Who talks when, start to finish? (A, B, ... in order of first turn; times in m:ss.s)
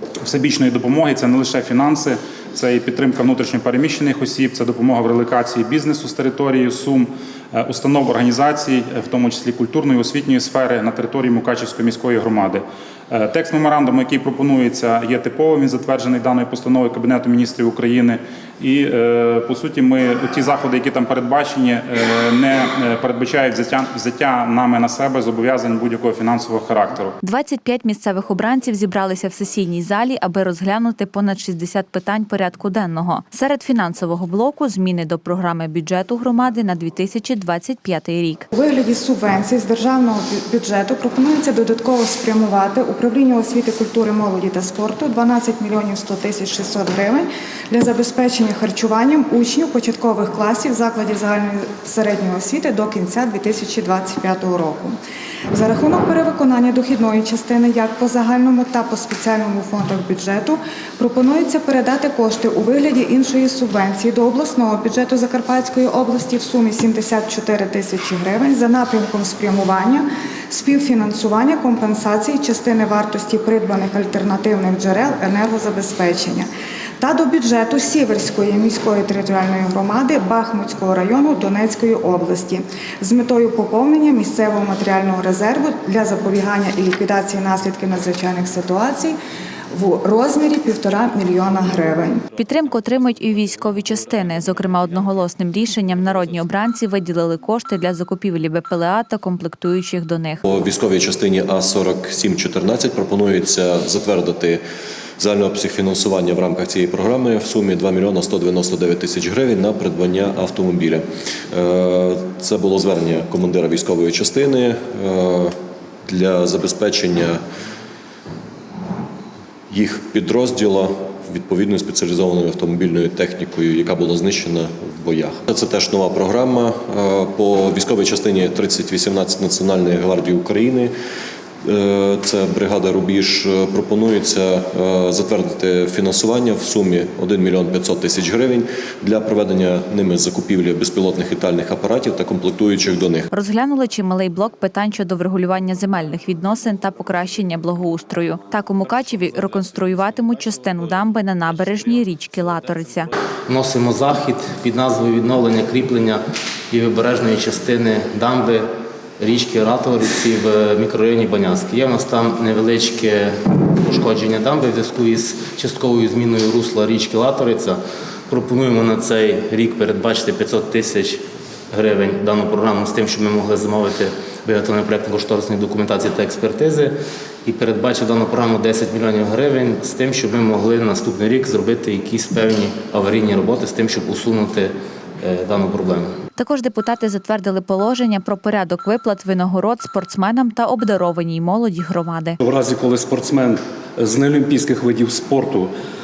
0:00.2-0:27.2 A
0:27.2-0:38.5 B
0:38.5-0:55.0 C
0:55.5-1:16.5 C
1:17.0-1:29.2 C
1:29.7-1:32.2 C
1:32.4-1:40.4 B
1:40.4-1:44.6 D
1:45.2-1:55.6 D
1:56.1-1:57.4 D
1:59.7-2:10.9 D
2:11.6-2:23.3 D
2:23.3-2:33.1 B
2:33.5-2:38.7 E
2:39.2-3:06.1 E
3:06.4-3:12.4 B
3:12.4-3:15.7 F